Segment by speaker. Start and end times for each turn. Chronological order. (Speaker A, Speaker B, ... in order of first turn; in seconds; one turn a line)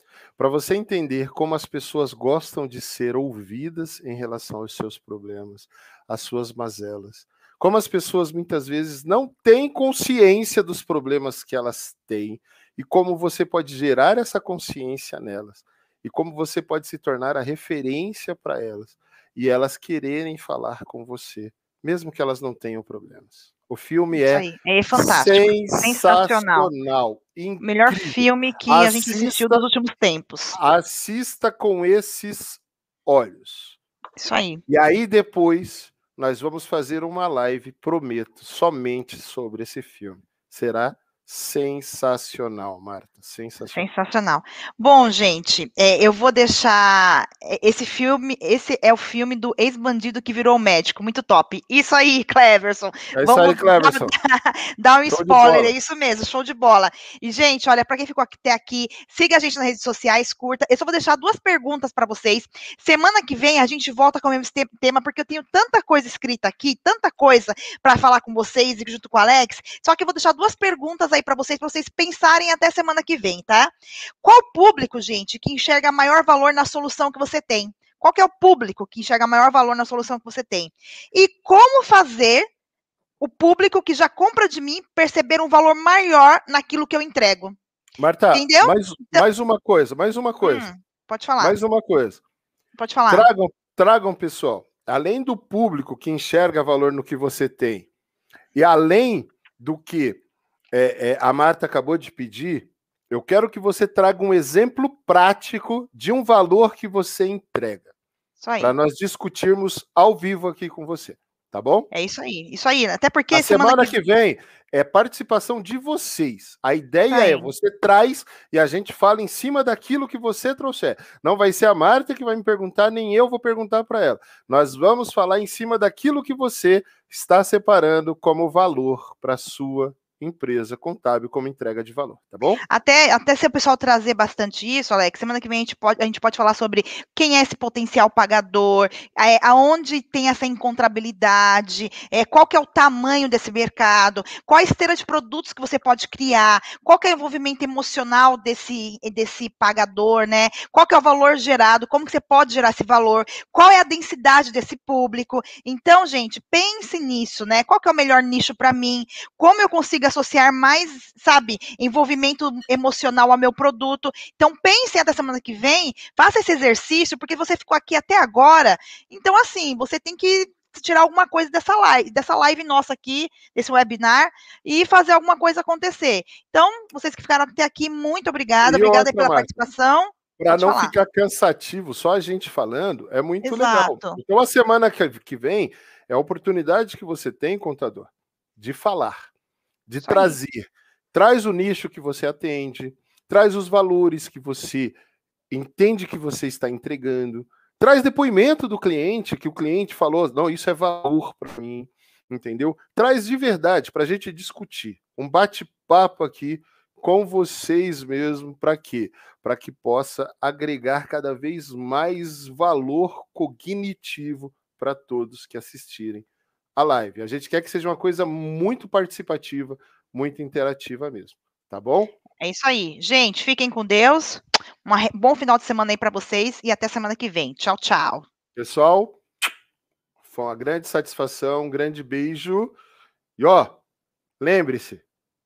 Speaker A: 0.4-29.6
Speaker B: 24.1-26.7
Speaker B: 27.6-30.6
Speaker A: 30.5-33.8
Speaker B: 34.2-34.6
Speaker A: 34.7-43.9
Speaker B: 43.7-82.5
Speaker A: 53.1-54.1
Speaker A: 55.1-55.7
Speaker B: 83.2-87.6
Speaker A: 88.0-90.7
Speaker B: 88.3-89.2
Speaker B: 90.4-91.5
Speaker A: 91.4-92.2
Speaker B: 92.8-93.3
Speaker A: 93.1-97.9
Speaker A: 98.5-107.9
Speaker B: 108.4-108.7
Speaker A: 108.6-111.9
Speaker B: 111.9-113.9
Speaker A: 113.3-132.6
Speaker B: 117.1-117.5
Speaker B: 132.7-180.9
Speaker A: 178.6-179.6
Speaker A: 180.4-189.3
Speaker B: 183.4-184.2
Speaker A: 189.9-195.0
Speaker B: 190.0-190.3
Speaker A: 195.5-222.1
Speaker B: 222.4-228.2
Speaker A: 228.6-229.2
Speaker A: 230.2-232.8
Speaker A: 233.4-233.8
Speaker A: 234.4-235.0